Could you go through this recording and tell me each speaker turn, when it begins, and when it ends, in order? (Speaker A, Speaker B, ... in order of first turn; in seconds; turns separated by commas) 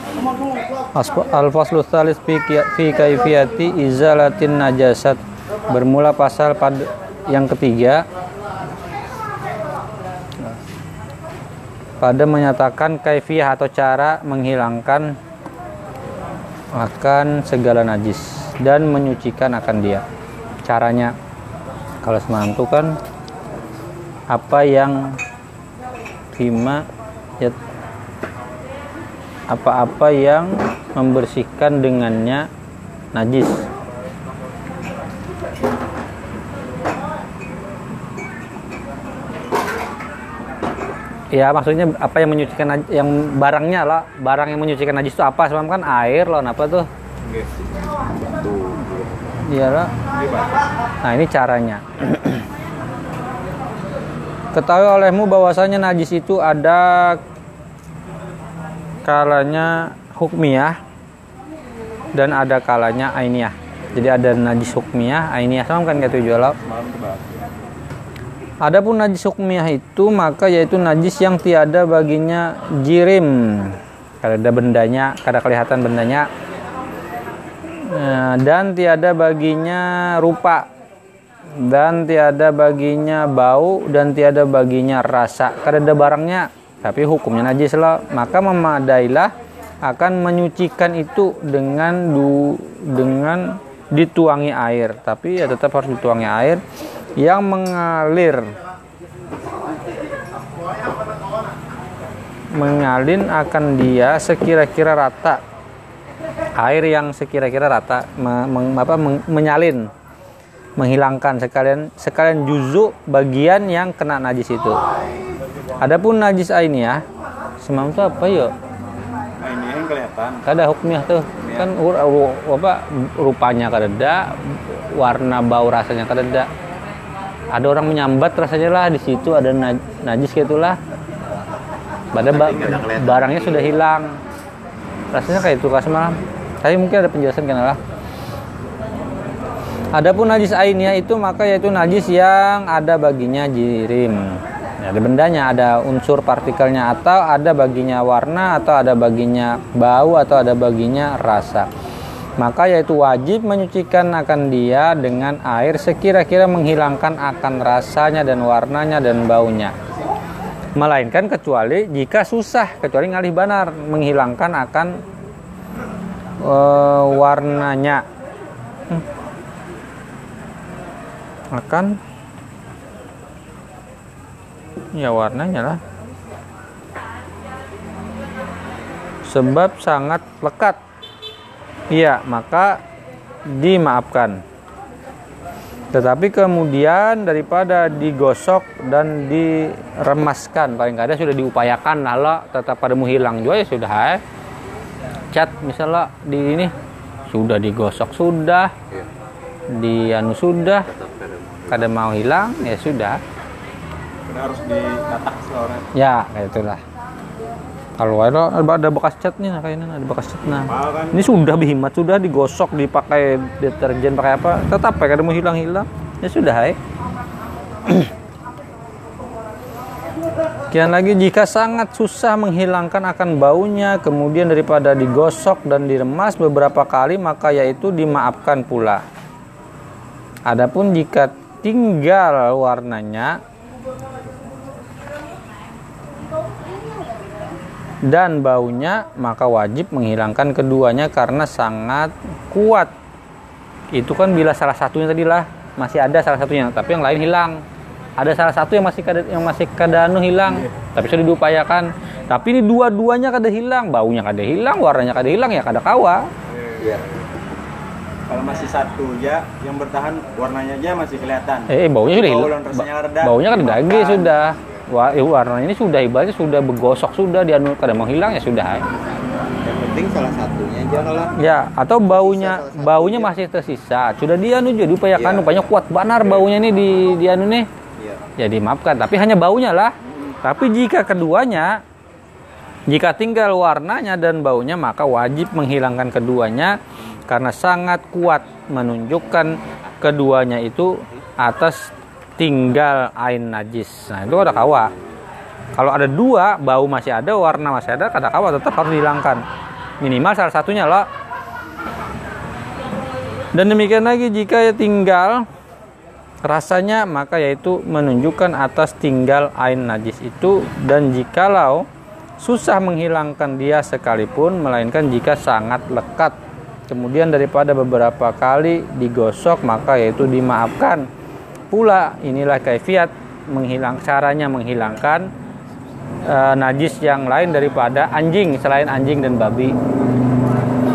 Speaker A: 0.9-8.0, Speaker A: 12.0-15.1, Speaker A: 16.7-20.0, Speaker A: 20.6-21.1, Speaker A: 22.0-22.9, Speaker A: 24.3-25.1, Speaker A: 26.3-26.8, Speaker A: 29.5-32.5, Speaker A: 33.1-33.7, Speaker A: 41.3-46.9, Speaker B: 48.3-49.0, Speaker A: 49.4-49.9, Speaker C: 50.1-50.5, Speaker A: 51.0-52.4, Speaker A: 54.5-57.2, Speaker A: 59.0-60.8, Speaker A: 62.1-66.5, Speaker C: 66.6-67.4, Speaker A: 68.6-76.3, Speaker A: 77.8-80.7, Speaker A: 81.6-89.3, Speaker A: 89.8-96.6, Speaker A: 97.2-98.5, Speaker A: 102.5-105.4, Speaker A: 106.6-109.9, Speaker A: 110.8-114.8, Speaker A: 115.8-117.0, Speaker A: 117.6-118.5, Speaker C: 119.4-120.4, Speaker A: 120.4-126.5, Speaker C: 121.4-121.7, Speaker A: 127.5-130.8, Speaker A: 132.1-134.2, Speaker B: 132.1-133.7, Speaker A: 135.1-137.8, Speaker A: 139.9-151.7, Speaker A: 152.4-159.7, Speaker A: 160.8-165.0, Speaker A: 166.4-168.0, Speaker A: 171.5-172.0, Speaker A: 174.9-175.8, Speaker A: 179.2-180.8, Speaker A: 181.9-182.8, Speaker A: 183.5-184.4, Speaker A: 185.9-194.2, Speaker A: 195.3-196.7, Speaker A: 197.3-198.7, Speaker A: 199.7-200.9, Speaker B: 200.9-201.9, Speaker A: 201.7-203.2, Speaker C: 204.2-205.8, Speaker A: 205.9-206.8, Speaker A: 208.0-216.8, Speaker C: 210.7-211.2, Speaker A: 220.7-229.0, Speaker A: 230.5-233.4, Speaker A: 238.0-242.9, Speaker A: 243.9-247.6, Speaker A: 248.2-256.3, Speaker C: 256.5-257.0, Speaker B: 256.8-257.0, Speaker C: 258.3-264.4, Speaker A: 261.7-268.8, Speaker B: 269.6-271.3, Speaker A: 271.4-277.7, Speaker B: 272.2-273.3, Speaker B: 275.1-275.7, Speaker A: 278.4-281.8, Speaker A: 282.9-291.8, Speaker A: 292.4-294.9, Speaker A: 295.7-299.4, Speaker A: 300.0-301.1, Speaker A: 303.5-305.4, Speaker A: 306.4-311.9, Speaker A: 312.4-316.4, Speaker A: 316.9-321.1, Speaker A: 321.7-325.3, Speaker A: 326.2-329.7